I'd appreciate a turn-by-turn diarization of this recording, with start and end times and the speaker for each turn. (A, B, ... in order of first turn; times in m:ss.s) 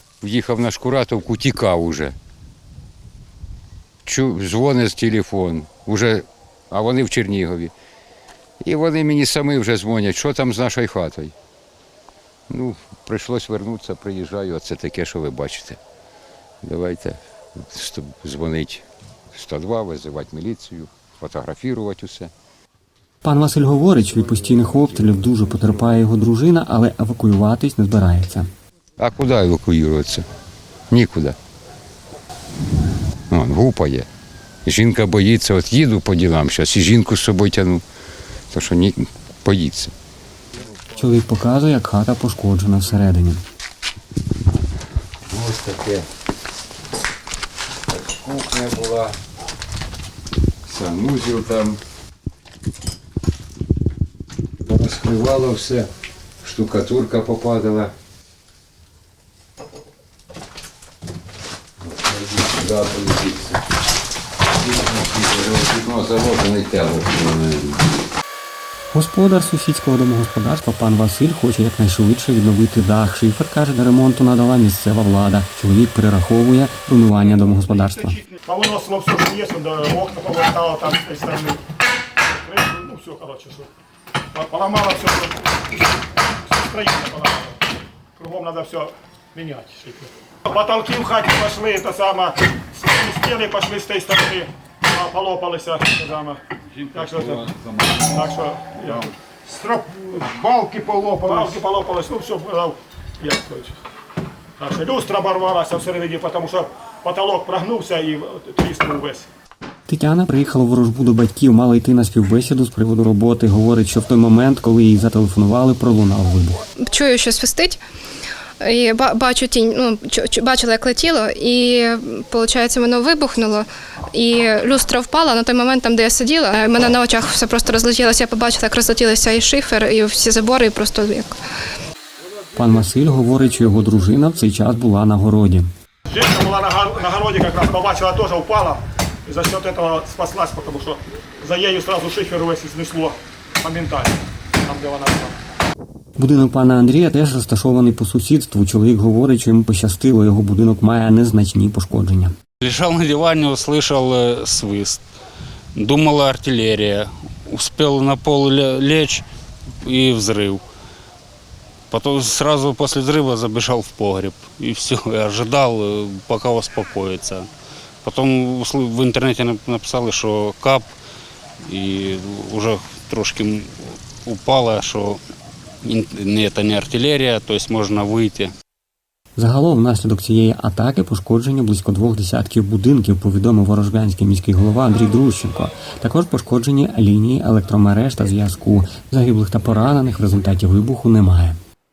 0:00.2-0:02.2 A
0:04.0-0:07.7 A
0:08.6-0:11.3 A
0:12.5-0:15.8 A
0:16.6-0:22.3 A
0:23.2-0:28.5 B
0:29.0-0:30.2 A
0:30.9-0:31.4 A
0:33.3-0:34.1 A
0:34.6-0:37.8 A
0:38.5-0:39.9 A
0:40.9-0:43.4 B
0:45.3-0:46.1 A
0:47.9-0:49.2 A
0:50.7-0:51.8 A
0:54.6-0:55.9 A
0:56.4-0:57.9 A
1:01.8-1:03.6 A
1:04.6-1:07.8 A
1:08.9-1:18.2 B
1:18.4-1:21.6 C
1:22.3-1:23.7 C
1:24.4-1:27.6 C
1:28.2-1:36.4 C
1:36.9-1:39.1 C
1:39.5-1:41.6 D
1:41.3-1:43.8 C
1:44.6-1:49.3 C
1:49.9-1:56.6 B
1:56.8-1:57.8 E
1:58.6-2:11.4 E
2:12.6-2:15.7 B
2:16.1-2:25.4 C
2:26.2-2:32.4 B
2:32.6-2:35.0 F
2:35.8-2:39.2 F
2:39.8-2:40.6 F
2:41.9-2:47.5 F
2:48.0-2:50.9 F
2:51.6-2:53.7 F
2:54.2-2:55.2 F
2:55.8-2:58.5 F
2:59.4-3:11.6 B